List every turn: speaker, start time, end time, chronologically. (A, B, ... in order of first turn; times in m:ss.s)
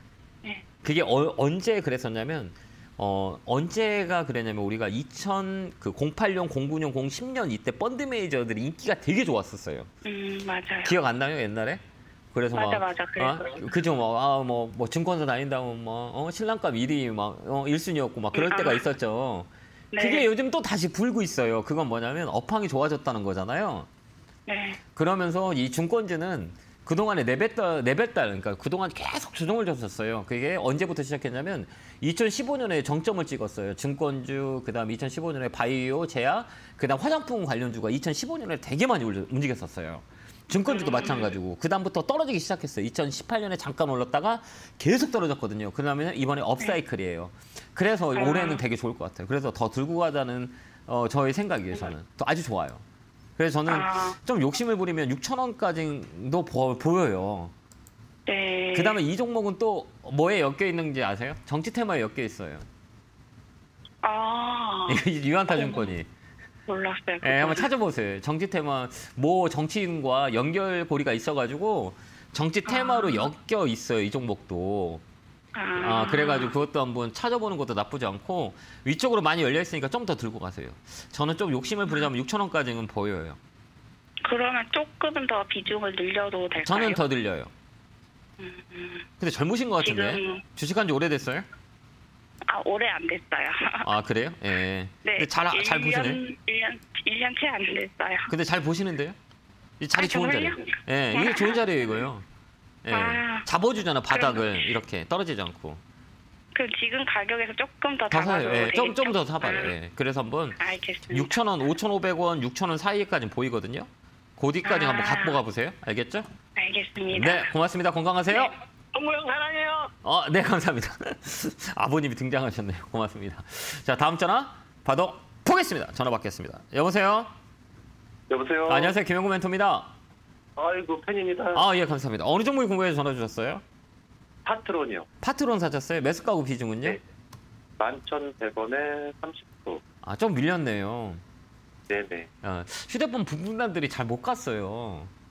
0:00.8-0:09.9 A
0:10.0-0:11.0 B
0:10.8-0:11.8 A
0:12.3-0:23.9 A
0:12.5-0:13.7 B
0:18.3-0:18.8 B
0:19.9-0:20.3 B
0:24.5-0:24.8 B
0:25.0-0:52.8 A
0:40.7-0:41.3 B
0:48.2-0:48.6 B
0:53.4-0:57.5 A
0:53.7-0:54.2 B
0:58.3-0:59.0 B
0:58.7-1:02.6 A
1:04.0-1:06.0 B
1:04.9-1:06.1 A
1:06.7-1:07.7 B
1:07.2-1:15.0 A
1:12.7-1:13.3 B
1:15.6-1:16.5 B
1:15.8-1:23.4 A
1:24.2-1:27.0 B
1:26.6-1:27.5 A
1:28.4-1:29.1 B
1:29.2-1:31.5 A
1:29.8-1:30.4 B
1:32.5-1:33.9 B
1:33.8-1:36.2 A
1:35.0-1:38.3 B
1:38.3-1:39.2 A
1:39.8-1:42.3 A
1:40.0-1:42.0 B
1:42.8-1:45.8 A
1:42.9-1:43.5 B
1:44.1-1:44.7 B
1:46.6-1:49.7 B
1:48.1-1:56.3 A
1:50.6-1:51.4 B
1:54.6-1:55.4 B
1:56.6-1:57.5 B
1:57.1-1:58.5 A
1:59.0-1:59.9 C
2:00.0-2:07.3 A
2:08.3-2:09.0 C
2:08.7-2:09.9 A
2:10.6-2:11.7 C
2:11.5-2:13.6 A
2:14.4-2:15.1 C
2:15.2-2:17.0 A
2:17.8-2:19.8 C
2:20.0-2:21.2 A
2:21.9-2:22.3 C
2:22.4-2:25.1 A